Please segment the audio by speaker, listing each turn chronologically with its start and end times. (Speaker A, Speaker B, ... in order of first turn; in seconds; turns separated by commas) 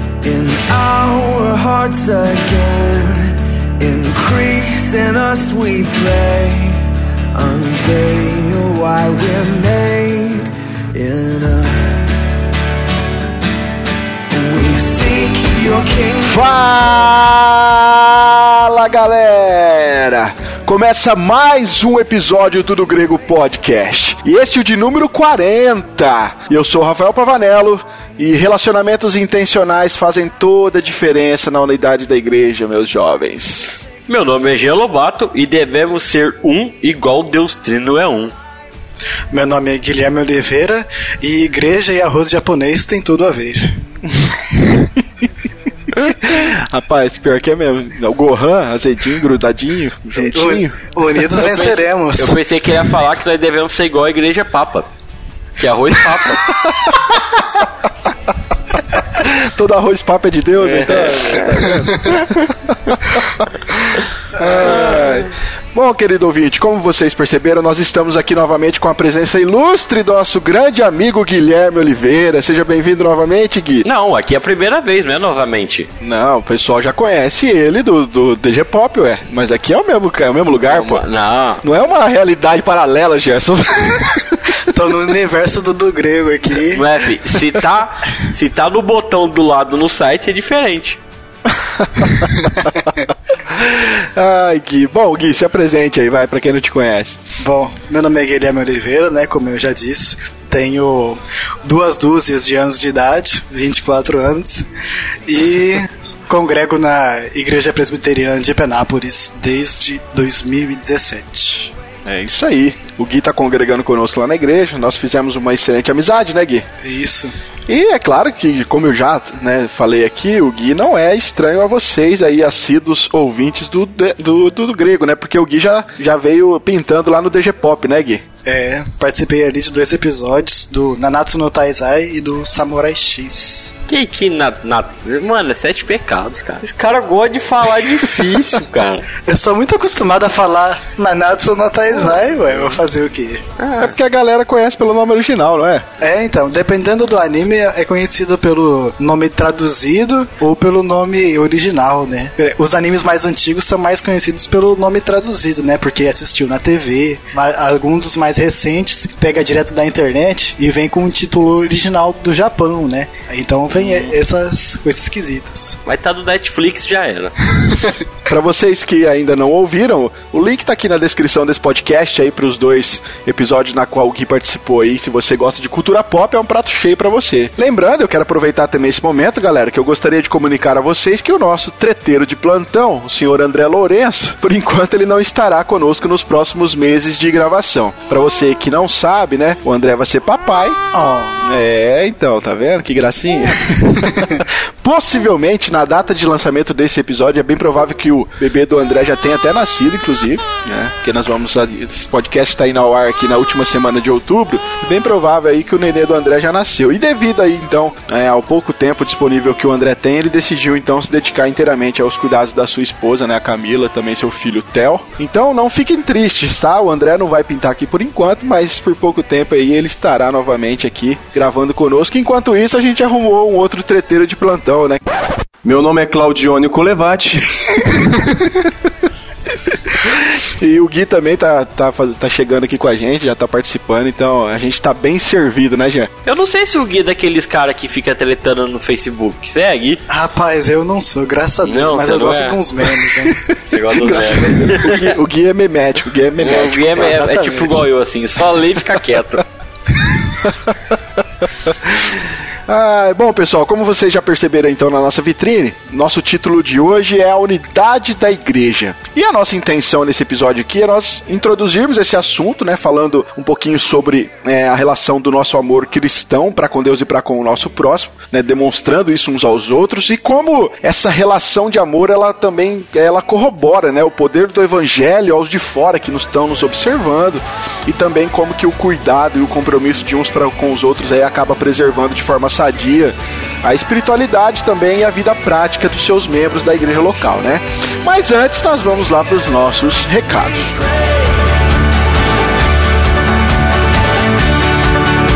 Speaker A: 0.2-6.8, Speaker A: 7.3-12.1, Speaker A: 14.3-17.1, Speaker B: 16.2-33.8, Speaker C: 34.1-38.3, Speaker D: 39.3-43.8, Speaker B: 44.0-45.3, Speaker B: 46.0-51.2, Speaker D: 50.1-52.4, Speaker C: 51.4-54.9, Speaker C: 55.6-57.2, Speaker B: 56.6-56.9, Speaker B: 59.1-73.9, Speaker C: 60.6-62.2, Speaker C: 64.7-65.1, Speaker C: 73.8-75.9, Speaker B: 76.0-81.0, Speaker C: 80.7-81.6, Speaker B: 81.6-84.6, Speaker D: 84.6-86.8, Speaker C: 86.7-91.0, Speaker B: 91.5-92.5, Speaker B: 93.4-97.2, Speaker D: 97.4-104.7, Speaker D: 105.3-111.7, Speaker B: 112.0-116.7, Speaker D: 116.8-117.4, Speaker B: 117.7-128.2, Speaker D: 128.4-133.7, Speaker C: 133.9-139.1, Speaker D: 139.2-143.4, Speaker C: 143.6-143.9, Speaker B: 143.8-145.9, Speaker D: 146.0-165.8, Speaker B: 163.7-164.1, Speaker C: 165.8-167.5, Speaker B: 168.2-190.9, Speaker D: 190.9-191.4, Speaker B: 191.4-225.0, Speaker E: 225.6-228.3, Speaker B: 229.7-236.1, Speaker C: 236.2-240.0, Speaker D: 240.1-244.9, Speaker C: 241.6-242.6, Speaker C: 243.7-245.1, Speaker B: 243.9-247.8, Speaker C: 246.4-249.4, Speaker D: 247.2-247.8, Speaker B: 250.4-251.0, Speaker B: 251.6-290.9